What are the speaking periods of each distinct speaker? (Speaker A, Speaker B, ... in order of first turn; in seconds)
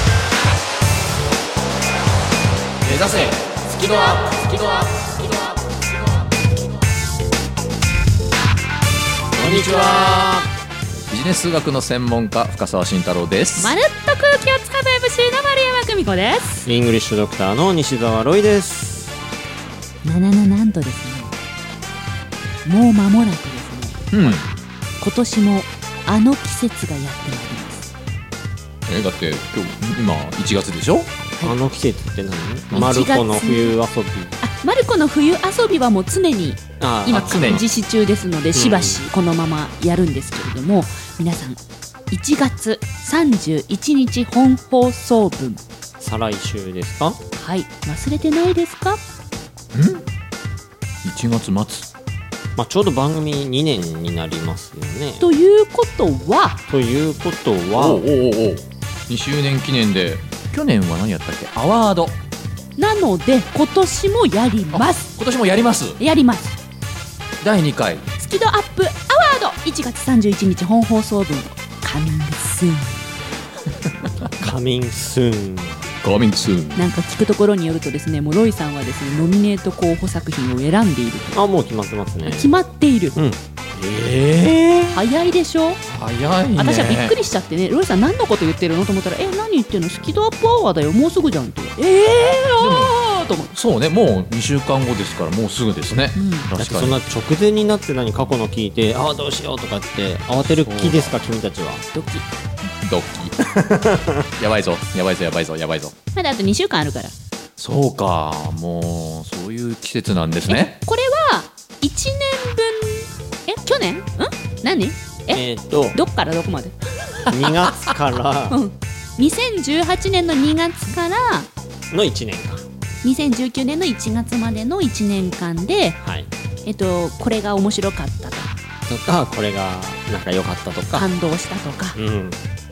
Speaker A: 2.9-4.8, 9.4-10.0, 11.1-13.8, 24.1-24.4, 28.9-31.1, 37.1-37.6, 49.7-50.0, 51.0-51.9, 57.8-62.2, 64.7-66.0, 67.4-68.1, 76.0-76.8, 83.8-85.0, 85.9-87.2, 92.6-93.0, 93.5-97.0, 100.6-101.2, 102.8-103.4, 104.4-106.0, 107.6-110.8
Speaker B: 9.4-10.5, 16.7-19.2, 31.4-34.4, 36.8-37.6, 38.5-39.0, 46.0-47.2, 52.6-55.2, 56.7-58.1, 74.2-75.9, 81.3-82.5, 83.2-83.4, 96.6-101.8, 103.5-104.3, 115.3-116.0, 117.2-118.6, 121.9-122.7, 126.0-126.3, 128.9-131.1, 131.9-132.4
Speaker C: 13.6-16.7, 20.0-21.3, 22.7-24.1, 25.0-27.9, 32.7-33.8, 34.4-41.6, 42.1-45.6, 47.4-49.0, 55.2-56.6, 62.8-65.1, 66.0-66.6, 68.2-73.0, 76.8-81.4, 82.2-83.2, 84.9-85.8, 86.6-93.5, 96.2-96.5, 101.9-102.3, 106.1-107.2, 110.5-116.8, 118.5-121.5, 123.0-126.0, 126.7-128.5, 130.9-132.0